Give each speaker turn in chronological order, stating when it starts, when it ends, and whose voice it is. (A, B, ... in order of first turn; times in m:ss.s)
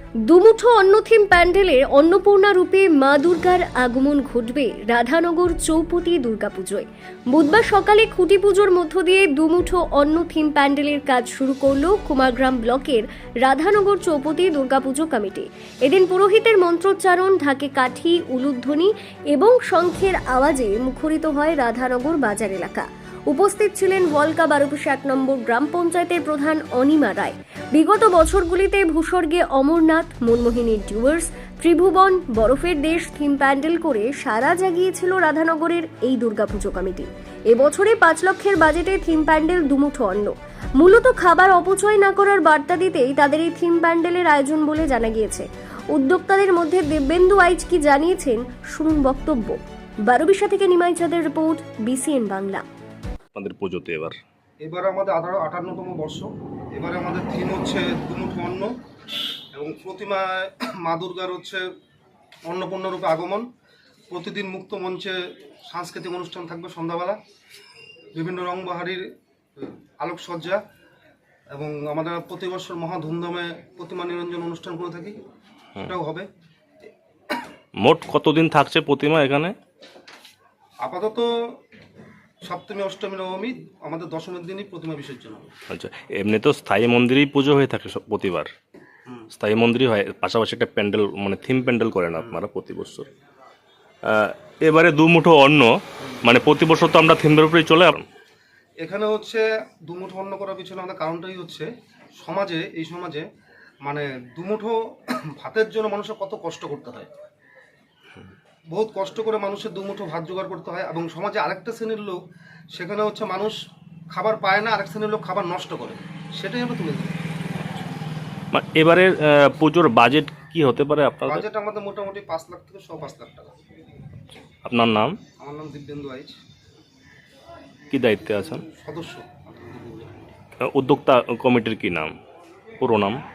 0:00.3-0:52.6 A
0:53.4-0:54.2 B
0:54.6-0:58.7 C
0:59.5-1:01.6 C
1:02.5-1:03.4 C
1:04.1-1:07.2 C
1:08.2-1:09.0 C
1:09.6-1:10.6 C
1:11.5-1:15.2 C
1:15.8-1:16.3 C
1:17.8-1:19.5 B
1:20.8-1:21.6 C
1:22.4-1:25.5 C
1:25.7-1:28.5 B
1:29.4-1:33.1 B
1:34.0-1:38.0 B
1:38.8-1:43.3 C
1:43.8-1:47.1 C
1:48.7-1:52.2 C
1:52.7-1:53.6 C
1:54.1-1:57.2 C
1:58.5-2:01.4 B
2:01.3-2:03.5 C
2:04.7-2:05.2 B
2:05.4-2:06.4 C
2:07.9-2:08.6 B
2:08.6-2:10.4 C
2:10.7-2:12.1 B
2:12.8-2:13.2 B